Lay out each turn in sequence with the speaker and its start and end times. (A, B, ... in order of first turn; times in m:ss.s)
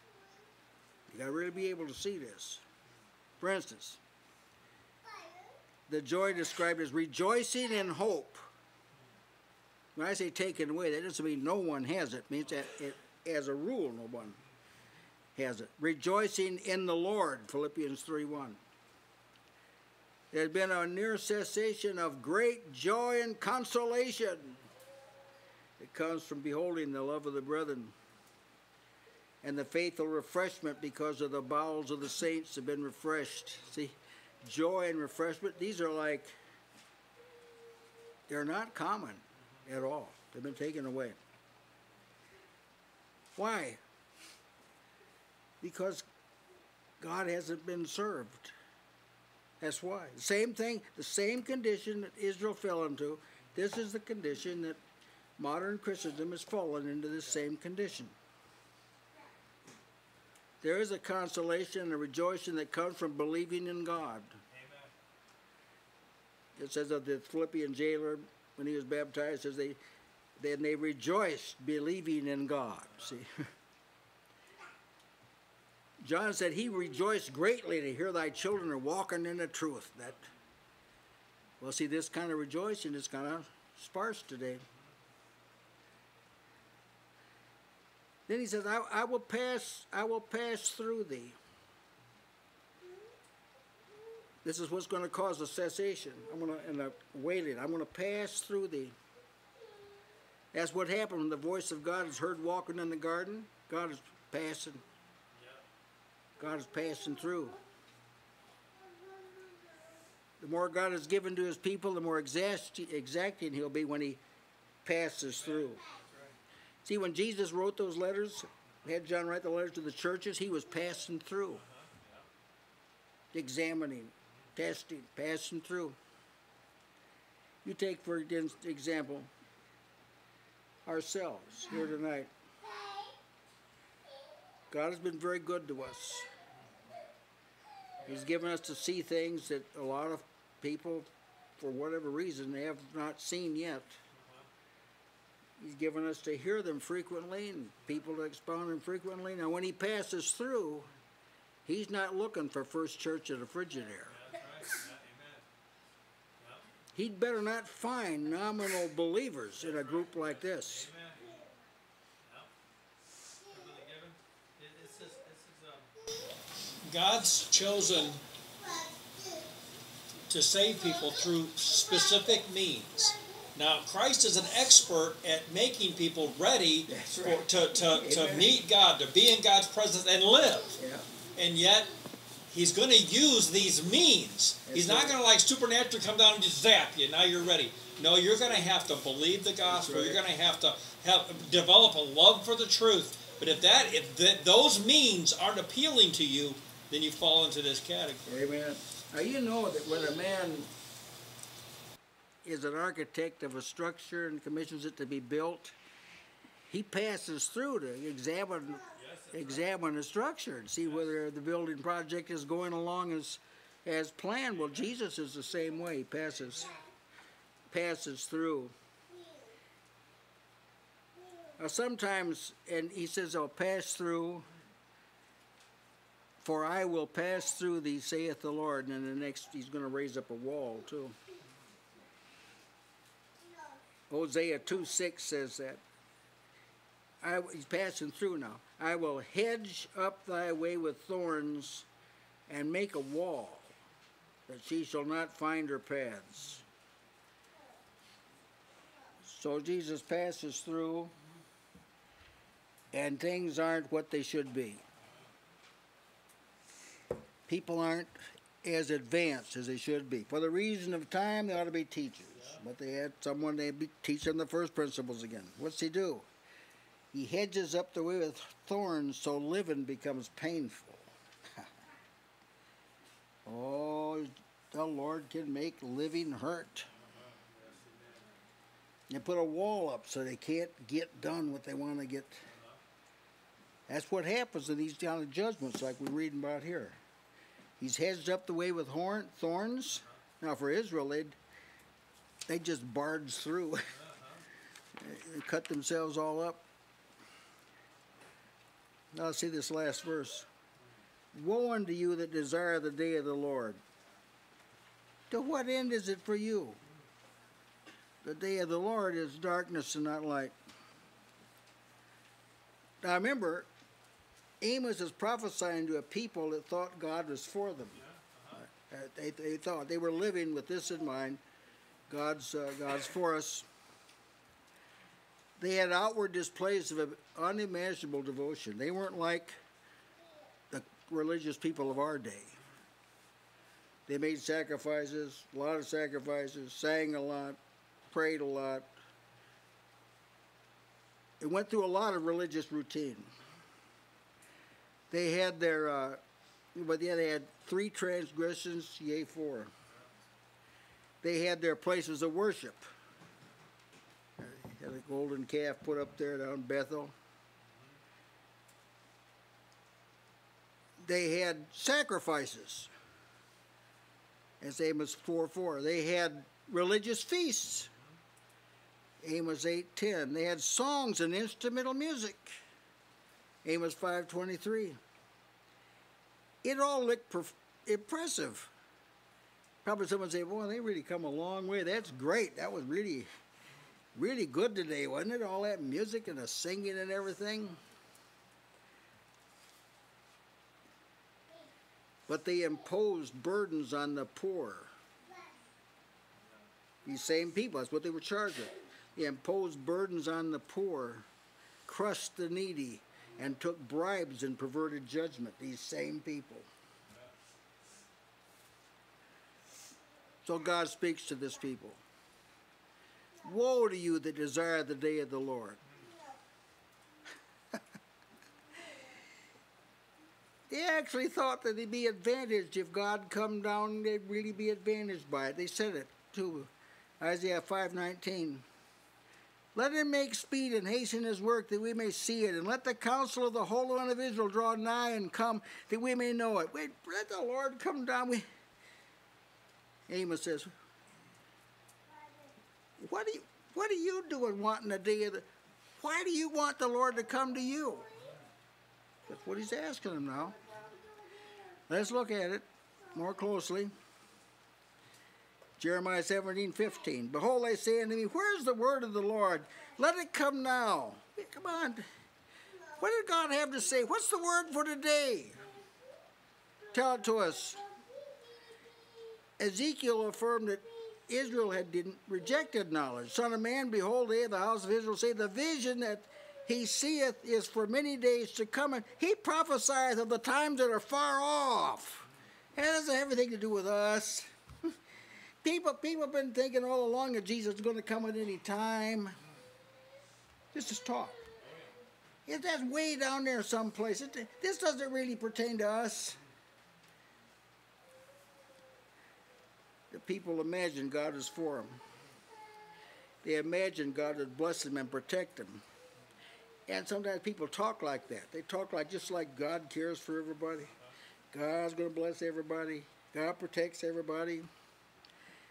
0:01.1-0:02.6 A
0:03.4-0:04.0 A
0:05.9-0:08.4 A
0:10.0-0:14.4 A
0:15.4-0:18.6 A
0:20.3-0:24.6 A
0:25.8-0:27.9 A
0:29.4-0:36.3 A
0:38.3-0:41.2 A
0:43.4-0:43.8 A
0:45.6-0:46.0 A
0:47.0-0:48.5 A
0:49.6-0:54.8 A
0:55.4-0:58.2 A
1:00.6-1:04.4 A
1:04.5-1:04.9 B
1:06.6-1:09.8 A
1:10.4-1:13.5 A
1:16.0-1:20.2 A
1:21.6-1:24.6 A
1:28.3-1:31.4 A
1:34.4-1:39.0 A
1:40.5-1:44.8 A
1:45.4-1:45.6 B
1:46.4-1:47.6 A
1:50.4-1:54.2 A
1:54.8-1:55.8 A
1:56.8-2:01.6 A
2:01.6-2:02.0 B
2:03.3-2:06.0 A
2:07.6-2:09.3 A
2:10.9-2:12.3 A
2:14.7-2:16.3 A
2:18.0-2:24.0 A
2:25.6-2:30.9 A
2:31.7-2:34.2 A
2:34.1-2:35.4 B
2:37.0-2:40.9 A
2:40.8-2:41.4 B
2:43.5-2:45.9 B
2:46.8-2:48.2 B
2:50.3-3:00.8 B
2:56.9-2:58.5 A
3:00.8-3:01.1 A
3:01.4-3:01.9 B
3:02.5-3:18.2 B
3:04.7-3:05.2 A
3:09.7-3:10.2 A
3:18.3-3:20.7 A
3:22.4-3:25.8 A
3:26.7-3:36.8 A
3:29.0-3:29.3 B
3:37.7-3:38.7 A
3:41.6-3:44.5 A
3:46.4-3:51.2 A
3:54.1-3:55.8 A
3:57.2-4:01.9 A
4:02.5-4:03.8 A
4:04.5-4:06.6 A
4:09.2-4:11.1 A
4:12.9-4:14.8 A
4:17.5-4:26.3 A
4:27.1-4:31.1 A
4:33.5-4:36.9 A
4:37.5-4:38.0 B
4:39.1-4:42.4 A
4:43.9-4:47.0 A
4:47.8-4:51.4 A
4:52.5-4:53.9 A
4:55.0-4:56.6 A
4:59.1-5:00.5 A
5:01.3-5:03.8 A
5:05.3-5:06.8 A
5:08.2-5:10.6 A
5:13.0-5:13.7 A
5:14.6-5:18.0 A
5:18.1-5:18.5 B
5:18.5-5:21.4 A
5:22.1-5:23.7 A
5:25.6-5:29.6 A
5:30.7-5:32.6 A
5:34.1-5:37.6 A
5:38.1-5:38.9 A
5:41.4-5:43.3 A
5:45.1-5:46.2 A
5:46.8-5:49.7 A
5:51.2-5:52.9 A
5:54.4-5:57.1 A
6:01.0-6:02.9 A
6:04.6-6:07.9 A
6:09.2-6:12.6 A
6:13.6-6:15.0 A
6:16.6-6:18.7 A
6:19.8-6:23.3 A
6:24.2-6:27.8 A
6:32.3-6:34.9 A
6:37.0-6:41.3 A
6:41.9-6:46.7 A
6:50.4-6:52.0 A
6:53.4-6:55.8 A
7:00.7-7:08.6 A
7:09.8-7:18.4 A
7:20.1-7:20.7 A
7:23.0-7:25.5 A
7:26.0-7:28.1 A
7:29.3-7:30.6 A
7:31.9-7:33.9 A
7:35.8-7:42.1 A
7:43.0-7:45.6 A
7:46.9-7:47.8 A
7:49.6-8:04.9 A
8:05.6-8:09.4 A
8:10.7-8:11.4 A
8:12.5-8:16.4 A
8:20.1-8:22.0 A
8:23.4-8:25.8 A
8:26.9-8:30.9 A
8:31.5-8:34.7 A